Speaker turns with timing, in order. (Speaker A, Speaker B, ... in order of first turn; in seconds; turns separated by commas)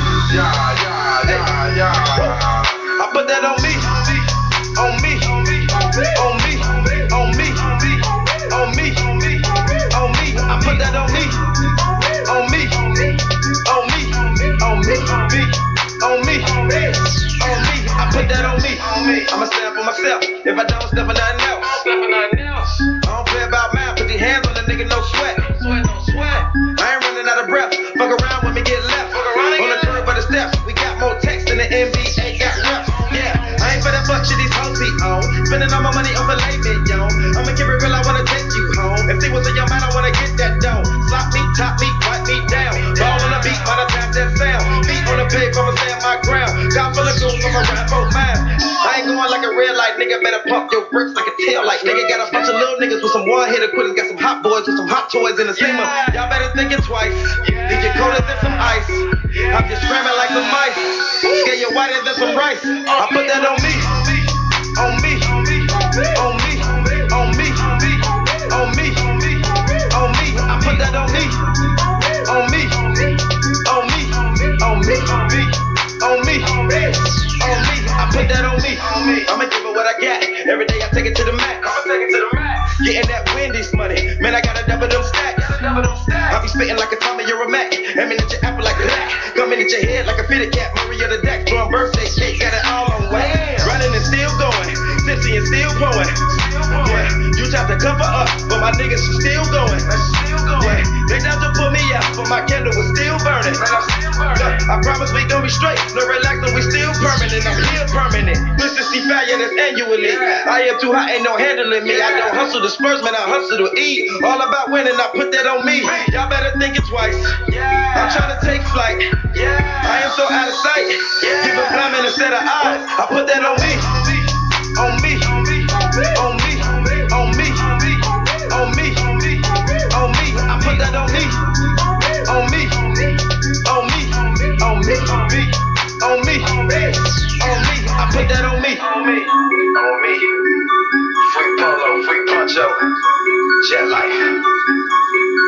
Speaker A: 0.3-131.5, Speaker A: 132.0-140.4, Speaker A: 141.2-143.0, Speaker A: 143.6-144.4